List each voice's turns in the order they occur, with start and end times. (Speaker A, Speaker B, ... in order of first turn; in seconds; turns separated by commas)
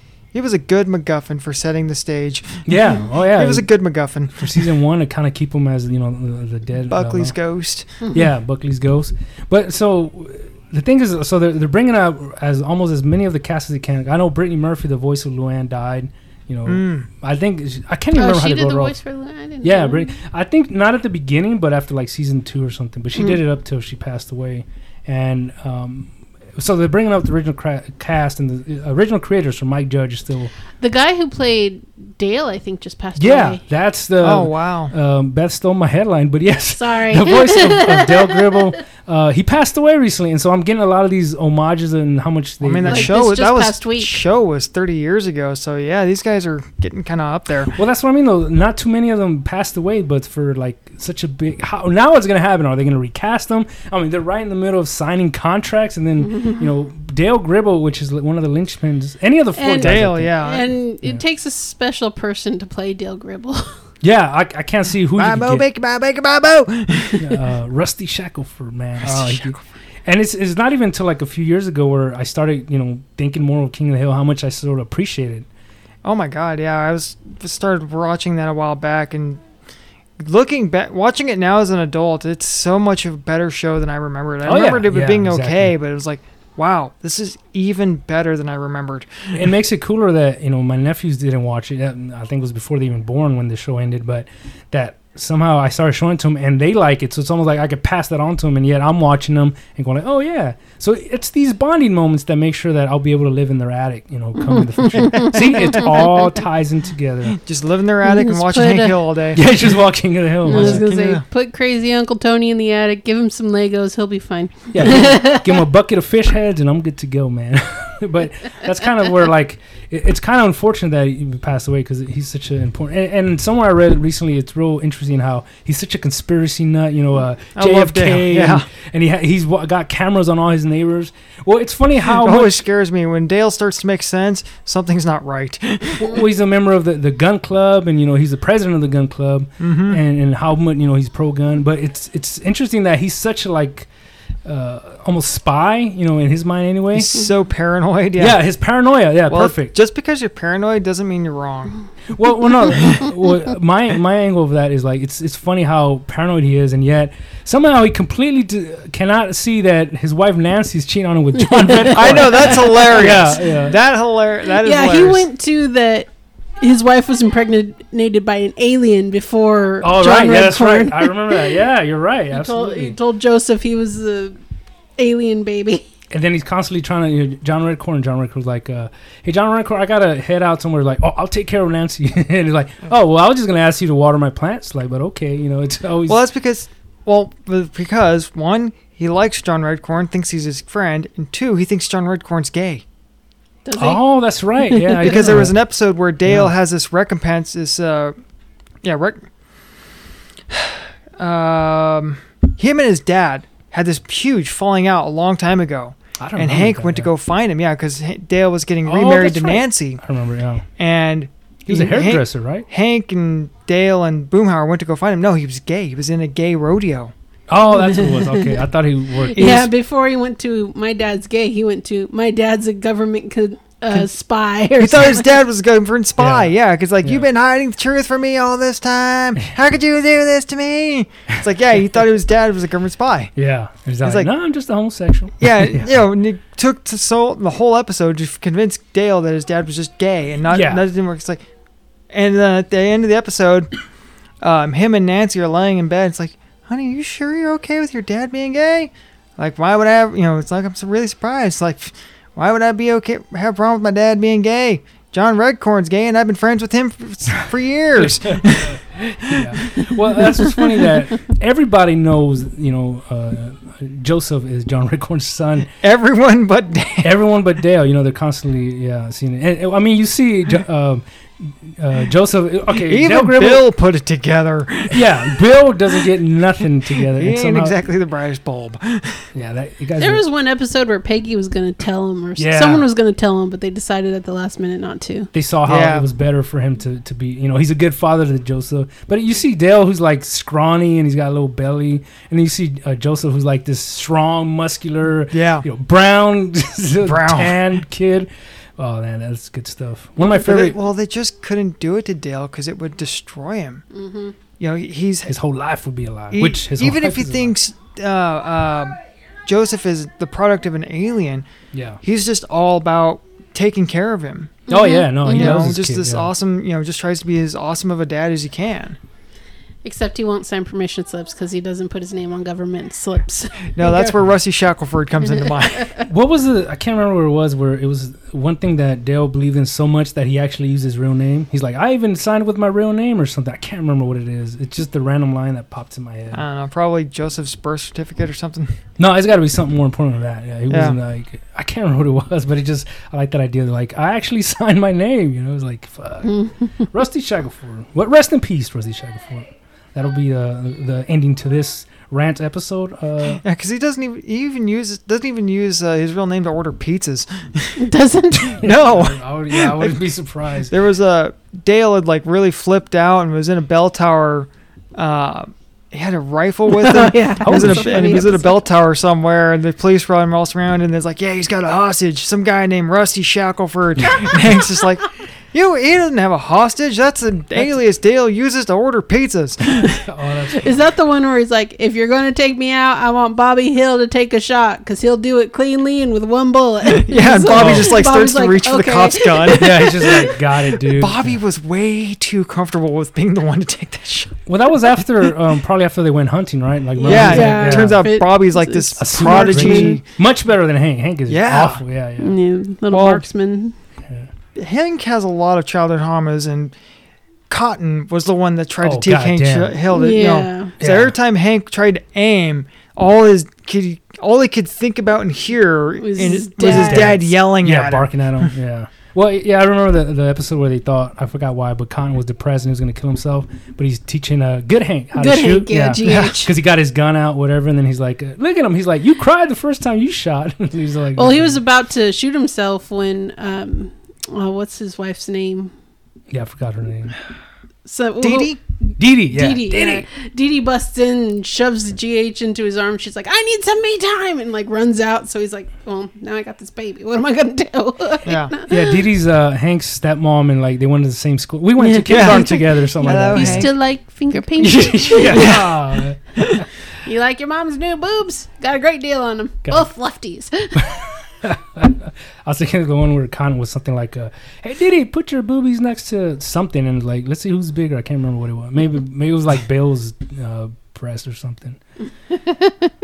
Speaker A: 0.3-4.7, Speaker B: 2.6-3.7, Speaker B: 4.4-7.3, Speaker A: 6.9-8.0, Speaker B: 8.1-19.0, Speaker A: 16.7-17.1, Speaker C: 18.1-20.1, Speaker B: 19.6-30.5, Speaker C: 30.8-33.6, Speaker B: 33.2-43.1, Speaker A: 34.2-34.9, Speaker C: 36.7-38.6, Speaker A: 42.6-47.7, Speaker C: 42.8-44.2, Speaker B: 47.7-60.4, Speaker C: 56.2-56.7, Speaker C: 59.5-63.8, Speaker A: 59.8-60.7, Speaker B: 64.0-65.6, Speaker A: 65.2-67.4, Speaker B: 67.2-69.5, Speaker A: 69.0-69.6, Speaker B: 70.0-75.5, Speaker A: 76.0-79.4, Speaker A: 80.2-89.5, Speaker B: 84.4-85.7, Speaker B: 89.3-107.4, Speaker C: 104.5-106.3, Speaker A: 105.0-105.8, Speaker A: 107.3-109.5, Speaker C: 108.0-109.0, Speaker B: 109.3-110.8, Speaker C: 110.5-115.6, Speaker A: 110.5-111.2, Speaker B: 114.7-132.6, Speaker A: 127.5-128.7, Speaker A: 132.0-136.2, Speaker B: 135.9-143.9, Speaker A: 139.6-140.0, Speaker B: 144.4-147.2, Speaker A: 146.9-148.4, Speaker B: 148.2-149.7, Speaker A: 149.3-151.8, Speaker B: 152.1-163.8, Speaker C: 161.5-161.9, Speaker A: 161.8-165.2, Speaker C: 164.6-166.1, Speaker C: 166.6-171.6, Speaker B: 169.8-172.9, Speaker C: 172.3-174.3, Speaker C: 175.0-175.9, Speaker B: 176.1-186.2, Speaker A: 186.1-192.8, Speaker C: 193.7-194.0, Speaker B: 193.8-195.6, Speaker C: 194.7-195.2, Speaker A: 195.0-198.1, Speaker B: 196.2-196.5, Speaker A: 198.8-199.3, Speaker A: 200.5-210.0, Speaker B: 206.2-207.1, Speaker B: 208.8-210.6, Speaker A: 210.8-217.1, Speaker B: 211.7-212.7, Speaker B: 217.5-219.7, Speaker C: 217.7-218.6, Speaker C: 219.3-225.4, Speaker A: 219.3-219.7, Speaker A: 224.8-233.3, Speaker B: 226.2-226.5, Speaker B: 233.3-236.1, Speaker A: 234.0-234.3, Speaker A: 235.4-241.4, Speaker B: 240.5-240.8, Speaker A: 242.1-243.7, Speaker A: 244.4-259.9, Speaker B: 258.0-265.7, Speaker A: 265.7-267.1, Speaker B: 267.0-273.6, Speaker A: 272.8-275.4, Speaker B: 274.9-277.7, Speaker A: 276.9-279.3, Speaker B: 279.3-280.2, Speaker C: 280.0-285.3, Speaker B: 282.4-282.9, Speaker B: 285.3-300.8, Speaker A: 285.6-286.1, Speaker A: 295.3-295.6, Speaker A: 297.0-297.6, Speaker A: 300.2-303.8, Speaker C: 303.9-304.3, Speaker A: 304.6-305.3, Speaker B: 305.3-307.5, Speaker A: 306.3-311.5, Speaker B: 311.7-312.0, Speaker A: 312.0-314.6, Speaker C: 314.7-315.6, Speaker B: 314.7-316.3, Speaker A: 315.2-319.0, Speaker C: 319.8-324.1, Speaker A: 323.7-325.9, Speaker C: 325.2-326.0, Speaker B: 326.0-336.4, Speaker A: 336.3-338.8, Speaker B: 339.0-353.4, Speaker A: 340.7-341.0, Speaker A: 353.4-357.8, Speaker C: 357.8-358.6, Speaker B: 358.4-360.7, Speaker A: 358.5-360.0, Speaker A: 360.7-380.0, Speaker C: 366.7-368.6, Speaker B: 367.4-368.3, Speaker B: 379.7-380.8, Speaker C: 380.5-390.1, Speaker A: 386.9-394.3, Speaker B: 387.5-388.0, Speaker B: 389.5-391.4, Speaker B: 394.5-398.1, Speaker C: 397.0-400.0, Speaker A: 397.0-400.0, Speaker B: 399.0-402.4, Speaker A: 401.3-401.8, Speaker C: 402.2-403.7, Speaker A: 402.9-403.2, Speaker A: 404.5-406.7, Speaker A: 407.5-418.5, Speaker B: 408.8-409.8, Speaker C: 409.9-410.7, Speaker B: 410.8-411.1, Speaker C: 416.0-417.2, Speaker B: 416.6-431.6, Speaker C: 425.1-426.5, Speaker A: 426.0-426.4, Speaker C: 431.1-435.7, Speaker B: 436.3-437.2, Speaker C: 437.8-438.6, Speaker A: 438.2-438.6, Speaker B: 439.0-440.1, Speaker C: 439.3-449.0, Speaker A: 448.2-448.5, Speaker B: 448.7-453.7, Speaker C: 451.8-455.6, Speaker A: 452.1-453.7, Speaker B: 454.6-456.6, Speaker A: 455.3-455.8, Speaker C: 457.0-460.9, Speaker B: 460.8-471.8